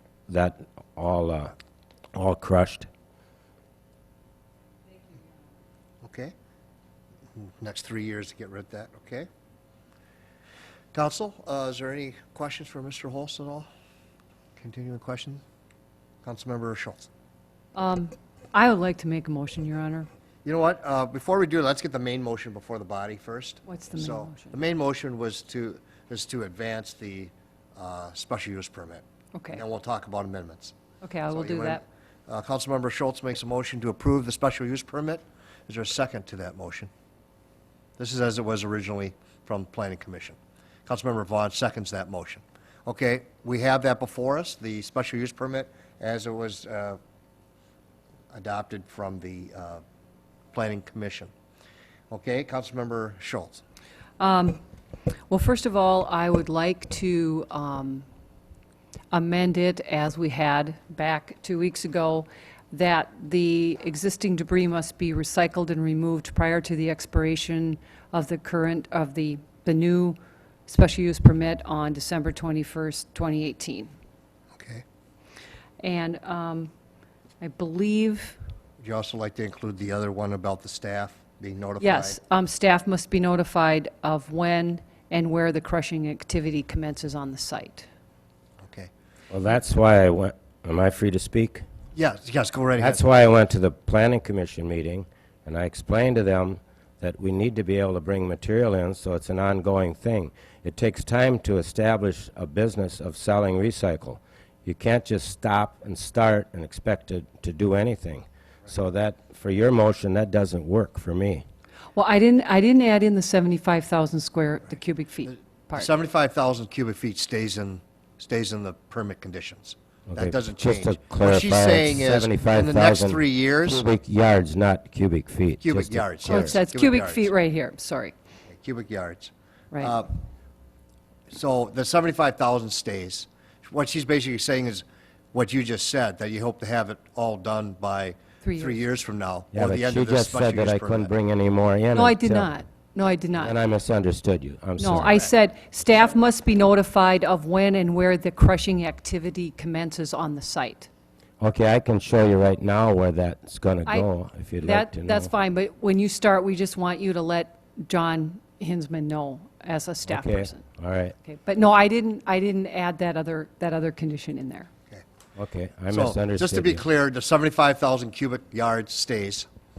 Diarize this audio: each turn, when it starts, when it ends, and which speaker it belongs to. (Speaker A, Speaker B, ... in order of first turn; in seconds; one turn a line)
Speaker A: 0.3-1.5
Speaker A: 2.1-2.9
Speaker B: 6.0-6.3
Speaker B: 7.3-9.3
Speaker B: 10.9-13.7
Speaker B: 14.6-15.4
Speaker B: 16.2-17.1
Speaker C: 17.7-20.1
Speaker B: 20.4-30.7
Speaker C: 23.6-24.6
Speaker C: 29.3-29.6
Speaker C: 31.0-31.8
Speaker B: 31.3-36.9
Speaker B: 38.0-47.0
Speaker B: 48.3-49.8
Speaker B: 50.5-51.3
Speaker B: 52.1-53.6
Speaker C: 54.2-54.6
Speaker C: 55.3-58.0
Speaker C: 59.1-73.9
Speaker B: 74.6-74.8
Speaker C: 75.8-76.7
Speaker C: 77.4-78.4
Speaker B: 78.8-82.2
Speaker C: 81.8-87.9
Speaker B: 88.6-88.9
Speaker A: 89.3-91.6
Speaker B: 91.9-93.0
Speaker A: 92.8-111.4
Speaker C: 111.9-115.9
Speaker B: 115.7-123.8
Speaker A: 120.1-126.6
Speaker B: 125.6-127.3
Speaker C: 126.2-128.1
Speaker B: 128.5-130.1
Speaker B: 131.3-141.1
Speaker C: 138.4-138.8
Speaker A: 139.5-142.5
Speaker C: 141.9-143.5
Speaker A: 143.4-145.2
Speaker C: 144.8-150.9
Speaker A: 151.4-155.3
Speaker C: 154.6-160.6
Speaker A: 160.1-161.1
Speaker C: 161.2-164.7
Speaker A: 165.3-166.8
Speaker B: 165.9-169.5